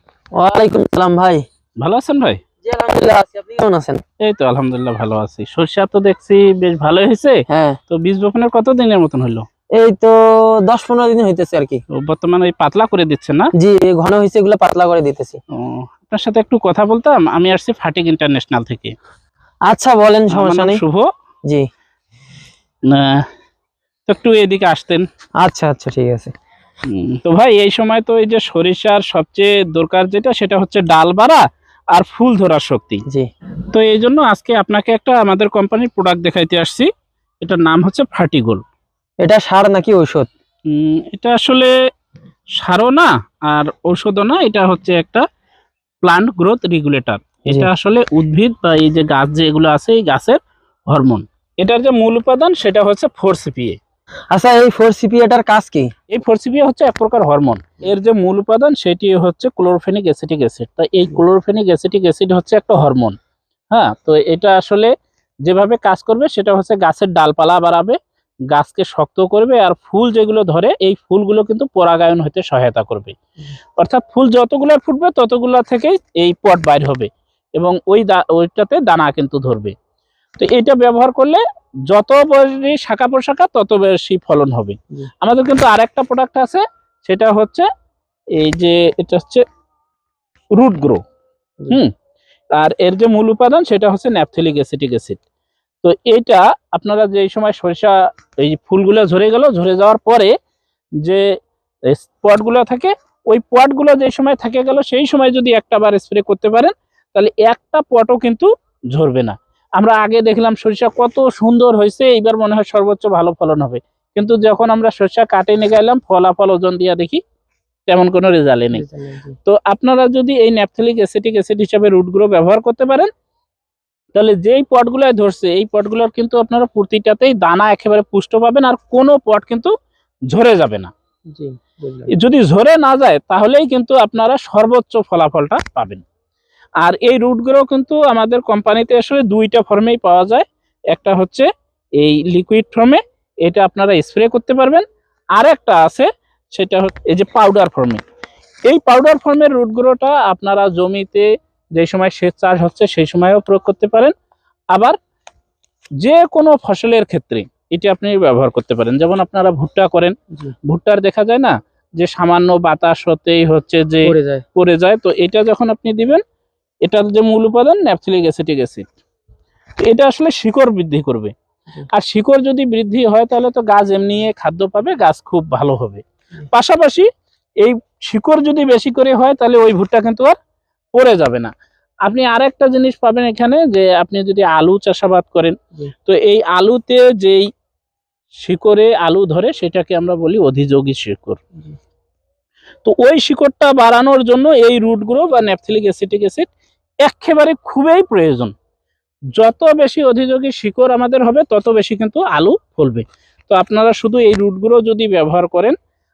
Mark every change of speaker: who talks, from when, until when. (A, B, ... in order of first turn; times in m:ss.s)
0:00.4-0:01.4 A
0:01.8-0:02.4 B
0:02.6-0:04.0 A
0:04.2-0:09.4 B
0:07.5-0:07.8 A
0:09.8-0:11.8 A
0:11.9-0:13.5 B
0:13.6-0:15.4 A
0:15.5-0:18.9 B
0:19.7-0:20.8 A
0:20.3-0:21.1 B
0:22.9-0:23.2 B
0:24.1-0:25.0 B
0:25.4-0:26.3 A
0:26.8-0:33.0 B
0:33.7-0:36.9 B
0:37.4-0:38.6 B
0:39.2-0:40.3 A
0:40.7-0:41.7 B
0:42.6-0:45.2 B
0:46.0-0:53.8 B
0:54.3-0:55.9 A
0:56.1-1:03.2 B
1:03.7-1:04.9 B
1:05.4-1:08.0 B
1:08.5-1:13.2 B
1:13.8-1:19.7 B
1:20.4-1:27.6 B
1:28.4-1:29.4 B
1:30.6-1:31.0 B
1:32.6-1:35.2 B
1:35.8-1:40.3 B
1:41.9-1:57.2 B
1:57.9-1:58.8 B
1:58.7-1:59.3 A
1:59.4-2:03.1 B
2:04.1-2:09.7 B
2:10.3-2:10.9 B
2:11.3-2:12.1 A
2:12.1-2:16.0 B
2:16.8-2:21.5 B
2:22.0-2:24.8 B
2:25.3-2:28.0 B
2:28.7-2:34.1 B
2:36.0-2:40.1 B
2:40.6-2:46.2 B
2:44.0-2:44.4 A
2:46.8-2:48.8 B
2:49.8-2:51.3 B
2:51.9-2:57.1 B
2:57.6-3:00.4 B
3:00.9-3:01.5 B
3:02.0-3:07.5 B
3:08.4-3:11.4 B
3:12.8-3:16.4 B
3:17.0-3:18.5 B
3:19.3-3:25.8 B